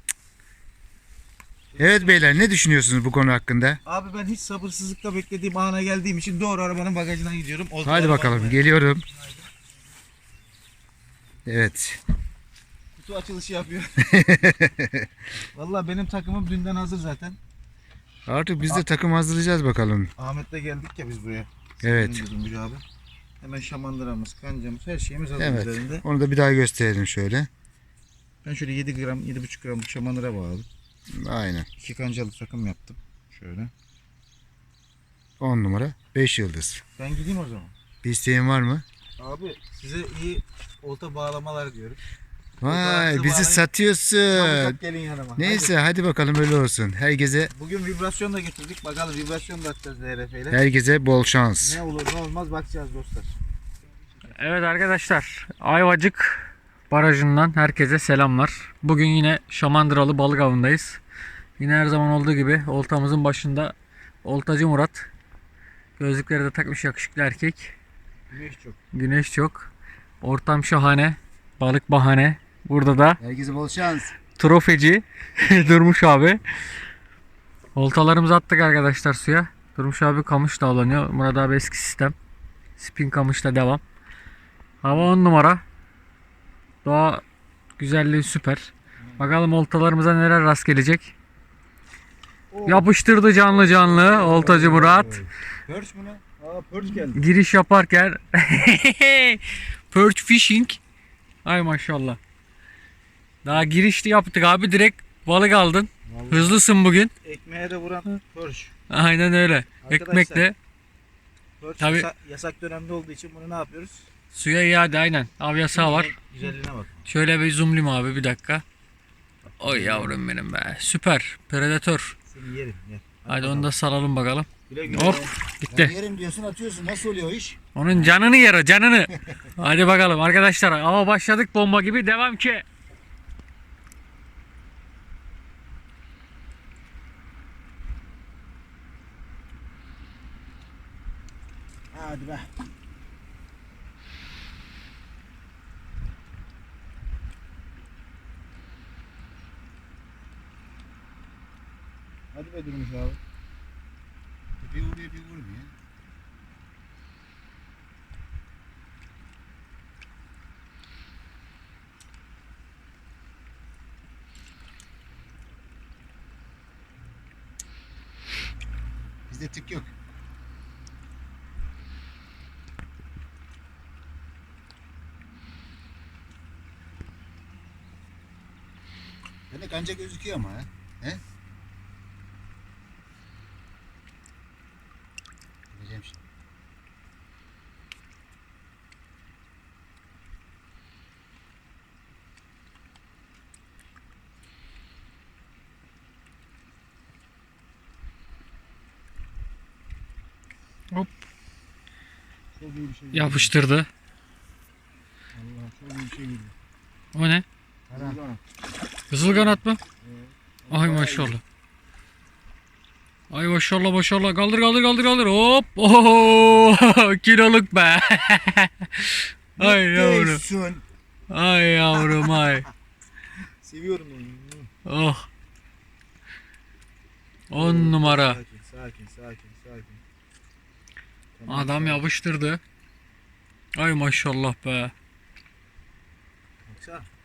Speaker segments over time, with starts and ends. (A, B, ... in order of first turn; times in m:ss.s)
0:01.7-0:02.2 A
0:01.8-0:03.8 B
0:03.8-0:09.5 A
0:07.8-0:09.0 B
0:11.4-0:12.0 B
0:13.0-0:14.3 A
0:14.0-0:15.1 B
0:15.5-0:17.4 A
0:18.2-0:20.1 B
0:20.2-0:22.8 A
0:21.8-0:22.3 B
0:23.4-0:26.0 A
0:25.4-0:27.5 B
0:28.4-0:30.6 A
0:31.1-0:31.7 B
0:31.8-0:33.7 A
0:35.4-0:36.8 B
0:37.0-0:37.7 A
0:38.0-0:38.8 B
0:39.2-0:42.0 A
0:42.6-0:44.8 B
0:42.6-0:43.6 A
0:44.3-0:45.7 A
0:45.4-0:47.5 B
0:47.5-0:50.6 A
0:50.5-0:51.8 B
0:51.6-0:54.4 A
0:54.3-1:01.0 C
1:01.6-1:05.1 C
1:06.0-1:07.7 C
1:08.3-1:08.8 A
1:08.9-1:09.7 C
1:10.2-1:13.2 C
1:13.2-1:14.1 B
1:14.4-1:16.4 C
1:15.4-1:15.9 A
1:17.7-1:22.1 C
1:22.8-1:23.8 C
1:24.8-1:25.6 C
1:26.8-1:27.2 C
1:27.8-1:31.1 C
1:29.0-1:29.2 A
1:32.5-1:37.2 A
1:32.6-1:35.2 C
1:37.1-1:40.8 C
1:41.4-1:42.2 C
1:43.4-1:47.1 C
1:46.0-1:46.6 A
1:47.2-1:48.7 A
1:48.9-1:50.5 C
1:49.8-1:50.5 A
1:51.6-1:54.1 A
1:51.8-1:52.1 C
1:54.3-1:56.1 C
1:55.7-1:57.0 A
1:57.1-1:58.6 C
1:59.6-2:02.2 C
1:59.6-2:00.1 A
2:02.3-2:03.7 A
2:03.3-2:05.9 C
2:04.7-2:05.3 A
2:05.7-2:07.6 B
2:07.7-2:12.6 C
2:21.9-2:22.5 A
2:32.3-2:33.2 A
2:34.6-2:35.7 B
2:49.3-2:49.9 B
2:59.5-3:01.2 B
3:05.7-3:06.2 B
3:20.9-3:21.2 C
3:22.6-3:23.5 A
3:23.1-3:23.9 C
3:25.3-3:26.5 A
3:27.1-3:27.4 C
3:27.9-3:28.4 A
3:27.9-3:28.2 B
3:29.1-3:29.8 C
3:29.2-3:31.4 A
3:30.7-3:31.4 C
3:33.3-3:40.4 C
3:39.6-3:40.8 B
3:41.3-3:42.7 C
3:43.6-3:44.7 A
3:44.8-3:45.3 C
3:47.5-3:48.4 C
3:47.5-3:50.0 A
3:51.4-3:52.0 A
3:51.5-3:52.6 C
3:53.8-3:54.9 C
3:56.6-3:57.1 A